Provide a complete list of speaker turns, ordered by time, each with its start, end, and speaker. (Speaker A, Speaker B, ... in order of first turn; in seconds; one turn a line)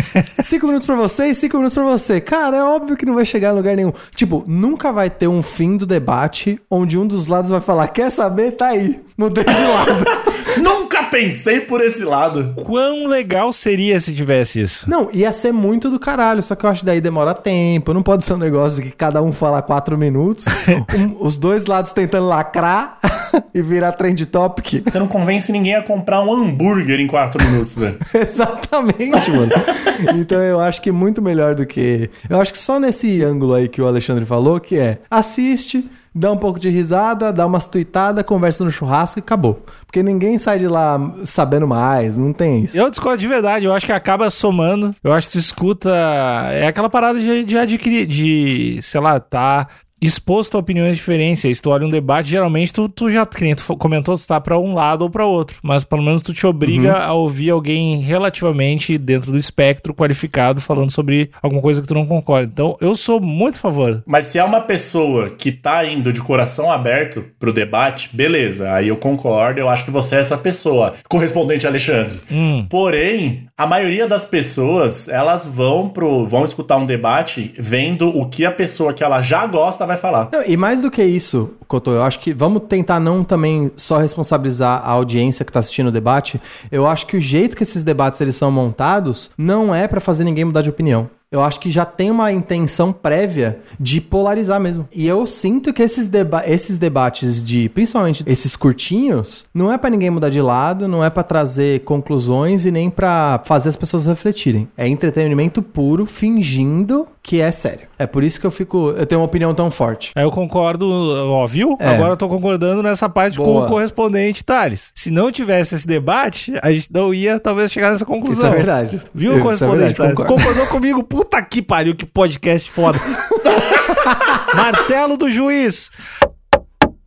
Speaker A: 0.4-10.6
Speaker B: 10.4-12.6
Speaker C: 12.6-14.9
Speaker A: 14.9-25.0
Speaker B: 24.9-28.0
Speaker A: 28.0-42.8
Speaker C: 42.7-64.0
Speaker A: 56.6-57.0
Speaker B: 64.1-80.3
Speaker C: 72.3-72.7
Speaker A: 80.3-110.1
Speaker C: 110.2-123.2
Speaker A: 111.8-112.2
Speaker A: 113.3-113.8
Speaker A: 118.2-120.7
Speaker A: 123.3-124.4
Speaker C: 124.5-125.9